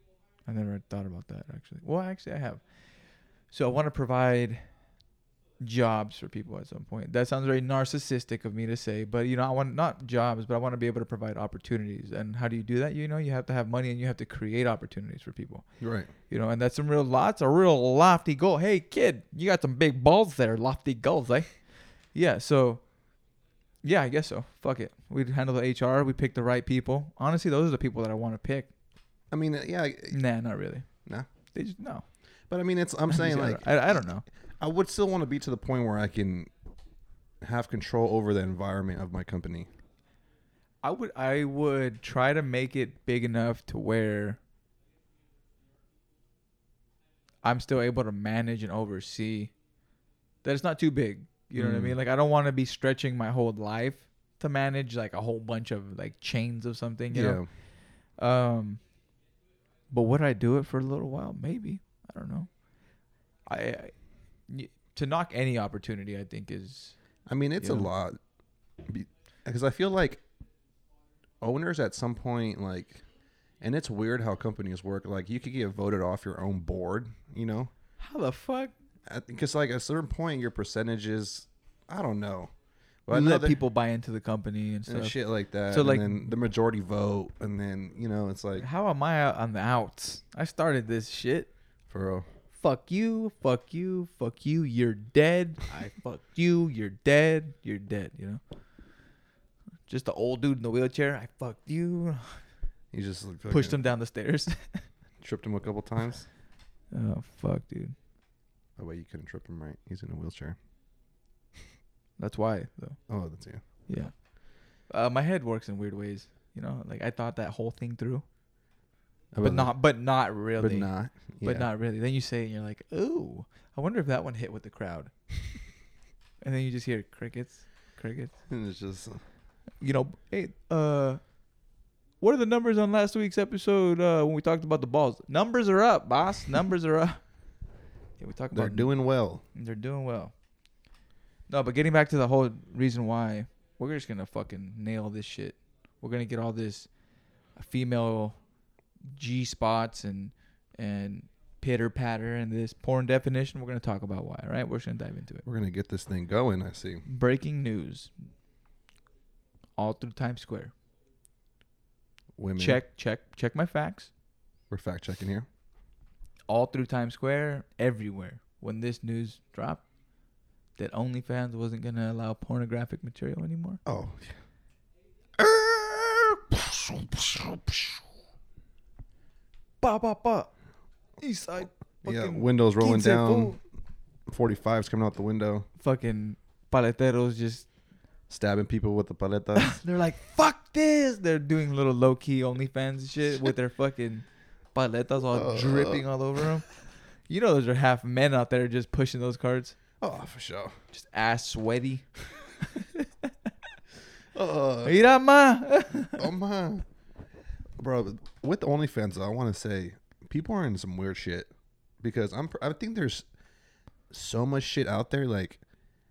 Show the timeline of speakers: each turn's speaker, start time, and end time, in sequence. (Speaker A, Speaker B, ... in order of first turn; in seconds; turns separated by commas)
Speaker A: 0.5-2.6, Speaker A: 3.5-4.6, Speaker A: 5.6-15.7, Speaker B: 15.8-16.1, Speaker A: 16.3-22.8, Speaker A: 23.8-28.7, Speaker B: 29.3-30.2, Speaker A: 30.1-30.9, Speaker A: 31.5-32.0, Speaker B: 32.5-34.0, Speaker A: 33.1-34.2, Speaker B: 34.6-36.5, Speaker B: 37.4-39.7, Speaker A: 40.8-44.4, Speaker A: 47.4-49.5, Speaker A: 50.4-57.4, Speaker B: 51.5-52.0, Speaker B: 57.1-57.5, Speaker A: 58.2-58.8, Speaker A: 59.9-62.5, Speaker A: 63.5-63.9, Speaker A: 64.5-67.0, Speaker B: 67.3-68.2, Speaker A: 67.6-67.9, Speaker B: 68.8-70.2, Speaker B: 71.4-73.0, Speaker B: 73.6-77.7, Speaker A: 78.0-78.7, Speaker B: 79.1-82.5, Speaker B: 83.1-83.6, Speaker A: 83.1-86.3, Speaker B: 84.9-88.7, Speaker A: 88.6-91.5, Speaker B: 91.9-92.3, Speaker A: 92.5-98.4, Speaker A: 99.9-102.4, Speaker B: 102.9-103.8, Speaker A: 103.5-104.8, Speaker B: 105.2-106.3, Speaker A: 106.9-108.0, Speaker B: 108.8-110.6, Speaker A: 112.2-113.0, Speaker B: 113.1-113.6, Speaker A: 113.9-114.1, Speaker A: 114.9-118.2, Speaker B: 119.3-119.7, Speaker A: 119.4-120.9, Speaker B: 120.6-121.7, Speaker A: 121.4-125.1, Speaker A: 126.4-128.3, Speaker B: 128.5-129.2, Speaker A: 129.8-131.2, Speaker A: 132.2-137.2, Speaker A: 138.2-138.9, Speaker B: 138.5-139.4, Speaker A: 139.5-140.3, Speaker A: 141.5-146.9, Speaker A: 147.6-148.4, Speaker A: 149.1-155.4, Speaker B: 155.4-157.0, Speaker A: 157.1-158.1, Speaker A: 159.8-160.7, Speaker B: 162.4-162.8, Speaker A: 162.6-164.1, Speaker B: 164.7-165.5, Speaker A: 166.5-169.8, Speaker A: 170.8-173.8, Speaker B: 173.8-174.4, Speaker B: 175.4-178.0, Speaker A: 179.8-180.5, Speaker A: 181.2-183.6, Speaker B: 182.0-183.6, Speaker B: 184.3-185.7, Speaker A: 185.8-187.7, Speaker B: 188.3-189.8, Speaker A: 189.6-196.8, Speaker B: 195.3-196.1, Speaker A: 197.3-199.8, Speaker B: 200.0-200.7, Speaker A: 200.9-202.1, Speaker A: 202.6-203.3, Speaker B: 204.3-205.0, Speaker A: 204.8-206.3, Speaker B: 206.1-206.8, Speaker B: 207.8-211.5, Speaker B: 212.0-213.3, Speaker B: 214.1-215.6